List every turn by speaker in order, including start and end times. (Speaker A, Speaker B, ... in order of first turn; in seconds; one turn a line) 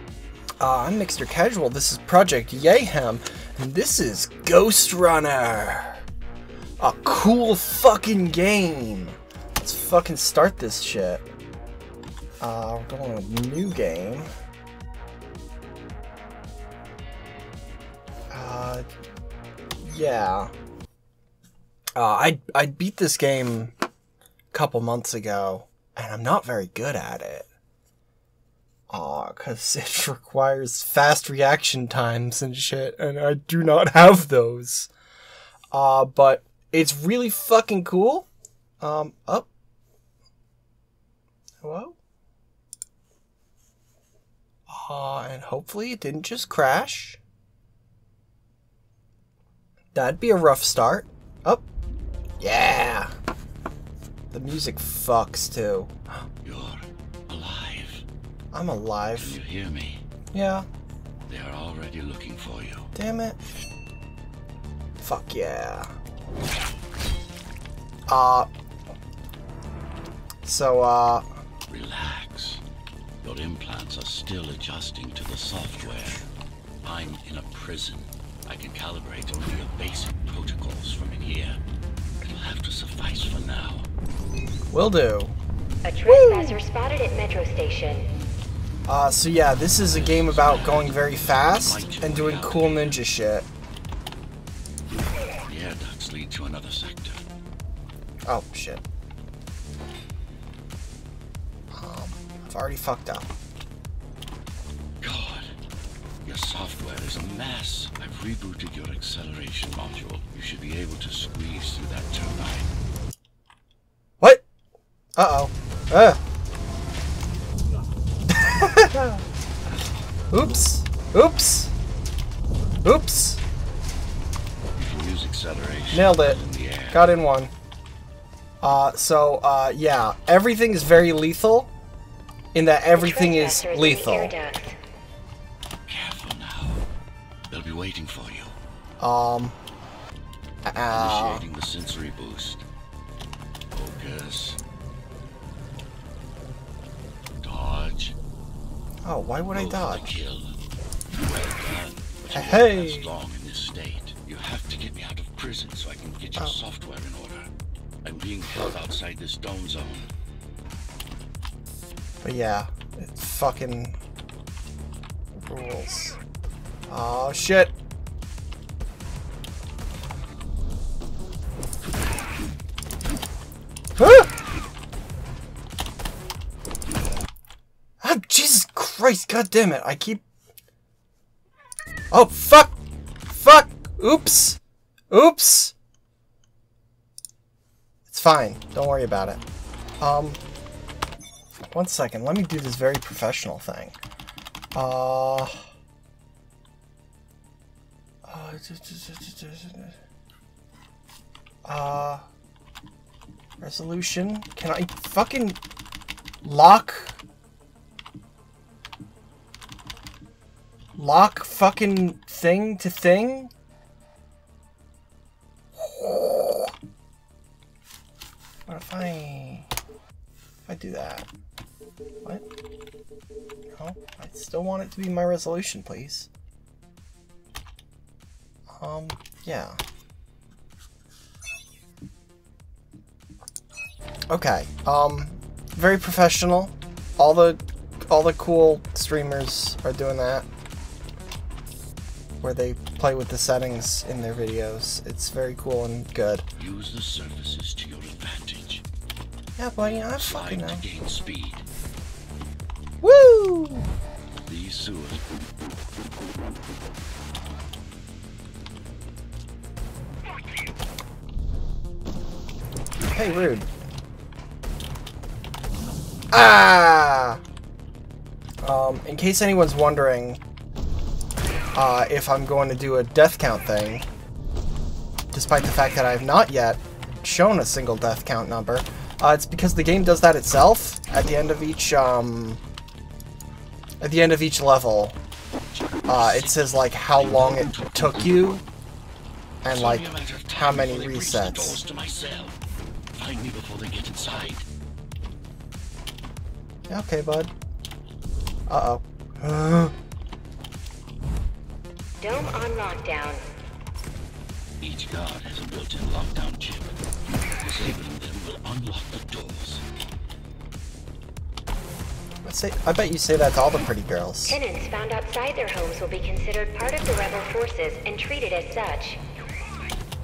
Speaker A: 0.6-6.0
Speaker A: 6.8-11.2
Speaker A: 12.4-14.3
Speaker A: 18.3-18.9
Speaker A: 19.8-20.5
Speaker A: 21.9-23.7
Speaker A: 24.5-27.5
Speaker A: 28.9-34.9
Speaker A: 35.7-38.3
Speaker A: 38.8-39.5
Speaker A: 41.6-42.0
Speaker A: 44.7-47.2
Speaker A: 49.9-51.6
Speaker A: 52.4-53.1
Speaker A: 54.3-55.9
Speaker B: 56.4-58.0
Speaker A: 58.5-59.4
Speaker B: 59.2-60.0
Speaker A: 60.3-60.7
Speaker B: 61.3-62.9
Speaker A: 62.9-63.4
Speaker A: 65.0-65.9
Speaker A: 68.1-68.5
Speaker A: 70.4-71.2
Speaker B: 71.7-72.6
Speaker B: 73.2-76.2
Speaker B: 76.8-81.6
Speaker B: 82.2-83.9
Speaker A: 84.7-85.3
Speaker C: 85.8-88.1
Speaker A: 86.0-86.6
Speaker A: 88.9-93.5
Speaker B: 89.7-93.0
Speaker B: 95.4-97.2
Speaker A: 98.3-98.8
Speaker A: 101.7-103.3
Speaker B: 105.0-105.5
Speaker B: 106.2-112.7
Speaker A: 114.2-114.4
Speaker A: 115.2-116.2
Speaker A: 118.3-119.2
Speaker A: 120.3-121.7
Speaker A: 122.8-123.4
Speaker B: 124.7-127.1
Speaker A: 125.9-127.5
Speaker A: 128.6-131.7
Speaker A: 132.5-134.4
Speaker C: 132.9-134.8
Speaker B: 135.9-136.8
Speaker B: 137.5-138.6
Speaker A: 139.0-139.6
Speaker A: 140.7-141.4
Speaker B: 140.9-142.6
Speaker B: 143.7-144.6
Speaker B: 147.4-148.2
Speaker A: 149.0-150.2
Speaker B: 149.5-150.6
Speaker B: 151.1-157.5
Speaker A: 152.3-153.1
Speaker B: 158.0-160.1
Speaker A: 162.2-163.9
Speaker A: 165.3-166.2
Speaker A: 166.9-167.7
Speaker A: 174.0-174.3
Speaker A: 178.0-180.2
Speaker A: 182.1-182.7
Speaker A: 183.3-184.6
Speaker A: 185.1-185.7
Speaker A: 188.1-189.4
Speaker A: 190.0-190.4
Speaker A: 191.7-194.0
Speaker A: 194.7-195.6
Speaker A: 198.2-199.9
Speaker A: 201.6-202.2
Speaker A: 203.6-205.6
Speaker A: 206.4-207.2
Speaker A: 210.9-213.5
Speaker A: 215.8-216.7
Speaker A: 218.7-219.7
Speaker A: 220.7-221.3
Speaker A: 223.8-226.3
Speaker A: 228.8-229.8
Speaker A: 234.3-240.5
Speaker A: 242.4-246.4
Speaker B: 246.6-248.8
Speaker A: 249.6-250.8
Speaker B: 250.1-251.7
Speaker A: 253.0-253.9
Speaker B: 254.4-255.2
Speaker A: 263.1-263.7
Speaker A: 266.3-267.4
Speaker A: 268.6-270.4
Speaker A: 271.7-274.1
Speaker A: 275.3-282.6
Speaker A: 284.0-285.2
Speaker B: 285.7-288.6
Speaker A: 286.1-288.6
Speaker A: 289.6-291.8
Speaker B: 289.6-292.6
Speaker B: 293.1-294.6
Speaker A: 296.9-297.5
Speaker A: 298.7-299.9
Speaker C: 302.2-303.4
Speaker B: 304.8-307.0
Speaker B: 307.6-309.8
Speaker A: 312.4-314.6
Speaker C: 314.4-319.2